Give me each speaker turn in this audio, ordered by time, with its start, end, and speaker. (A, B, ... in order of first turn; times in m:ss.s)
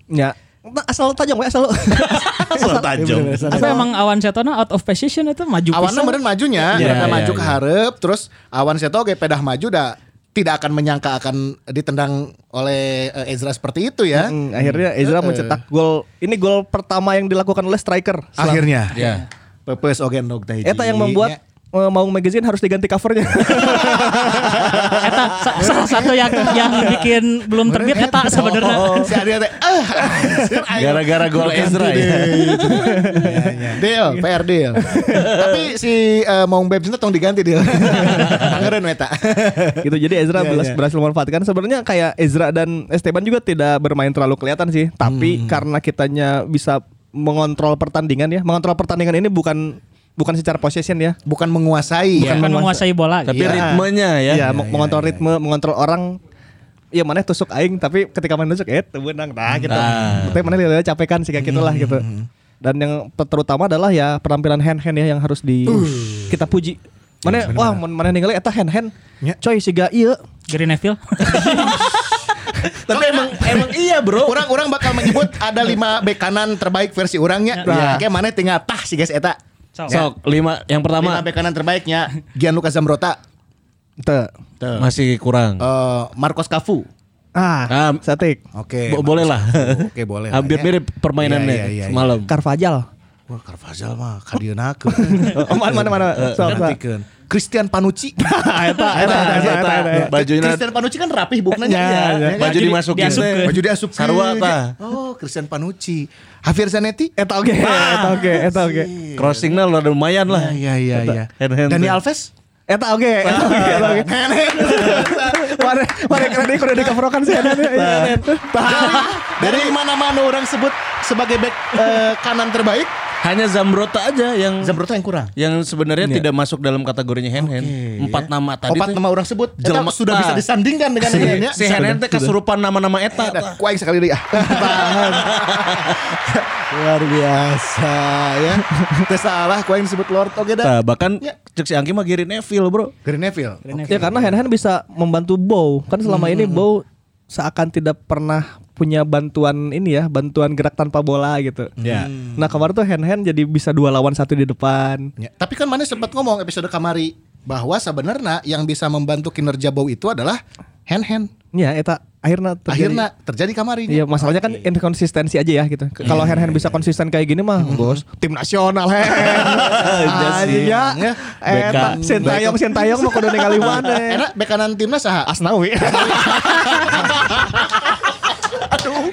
0:00.1-0:02.9 A
0:01.9-0:03.5 B
0:02.6-0:03.9 C
0:03.5-0:03.9 A
0:03.5-0:06.2 D
0:05.7-0:14.4 C
0:06.7-0:07.6 B
0:06.8-0:07.2 A
0:14.1-0:18.7 A
0:15.0-0:15.6 C
0:18.4-0:19.1 C
0:18.9-0:19.2 B
0:19.0-0:19.2 D
0:19.7-0:21.4 C
0:20.6-0:25.4 A
0:23.4-0:27.0 C
0:24.8-0:29.1 D
0:27.6-0:40.8 C
0:28.6-0:29.2 B
0:30.2-0:30.6 A
0:30.8-0:33.0 B
0:32.8-0:34.2 A
0:34.8-0:35.3 A
0:35.1-0:35.6 B
0:38.1-0:38.6 B
0:39.8-0:51.2 A
0:45.0-0:45.6 C
0:51.2-0:52.4 C
0:52.2-0:52.9 A
0:52.2-0:53.6 D
0:53.3-0:54.4 B
0:53.3-0:53.8 C
0:53.4-0:56.2 A
0:54.3-0:55.3 C
0:56.9-1:02.1 A
0:59.5-1:00.2 C
0:59.7-1:00.5 B
1:01.4-1:02.3 C
1:02.6-1:10.2 A
1:05.7-1:06.4 C
1:07.2-1:07.5 B
1:07.5-1:07.8 C
1:10.5-1:11.9 D
1:11.3-1:11.7 A
1:11.3-1:12.0 B
1:12.8-1:15.2 B
1:12.9-1:20.1 C
1:17.6-1:18.1 A
1:19.9-1:21.3 B
1:21.0-1:23.2 C
1:24.0-1:24.3 A
1:24.6-1:24.9 C
1:24.8-1:25.7 B
1:25.6-1:26.9 C
1:27.4-1:28.4 A
1:27.7-1:28.0 B
1:28.5-1:32.2 C
1:28.9-1:32.3 B
1:32.3-1:32.9 A
1:33.3-1:47.1 C
1:34.9-1:36.8 A
1:35.4-1:36.6 B
1:38.2-1:40.1 A
1:38.9-1:40.7 B
1:41.6-1:43.2 A
1:41.7-1:44.8 B
1:42.5-1:43.6 D
1:47.2-1:48.9 A
1:47.9-1:49.6 C
1:49.2-1:50.6 B
1:50.3-1:52.3 C
1:51.4-1:52.0 B
1:52.7-1:59.5 A
1:53.3-1:54.0 B
1:53.3-1:57.0 C
1:54.7-1:55.1 B
1:57.4-1:59.5 B
1:58.5-2:03.0 C
2:03.2-2:04.8 B
2:04.6-2:05.3 C
2:05.4-2:09.0 B
2:07.4-2:11.6 C
2:09.6-2:10.4 B
2:11.0-2:13.6 B
2:11.1-2:12.4 A
2:13.1-2:21.4 C
2:14.4-2:15.2 A
2:15.0-2:16.0 B
2:20.6-2:22.9 B
2:23.0-2:24.3 C
2:23.7-2:24.1 D
2:23.9-2:31.8 A
2:26.0-2:26.7 C
2:31.8-2:32.5 C
2:32.3-2:35.1 A
2:35.2-2:41.3 C
2:41.5-2:43.0 A
2:42.7-2:44.7 C
2:43.9-2:54.3 A
2:46.0-2:46.6 B
2:47.6-2:48.0 C
2:49.2-2:55.3 C
2:49.3-2:50.8 B
2:51.5-2:52.4 B
2:55.3-2:57.2 A
2:55.8-2:58.0 C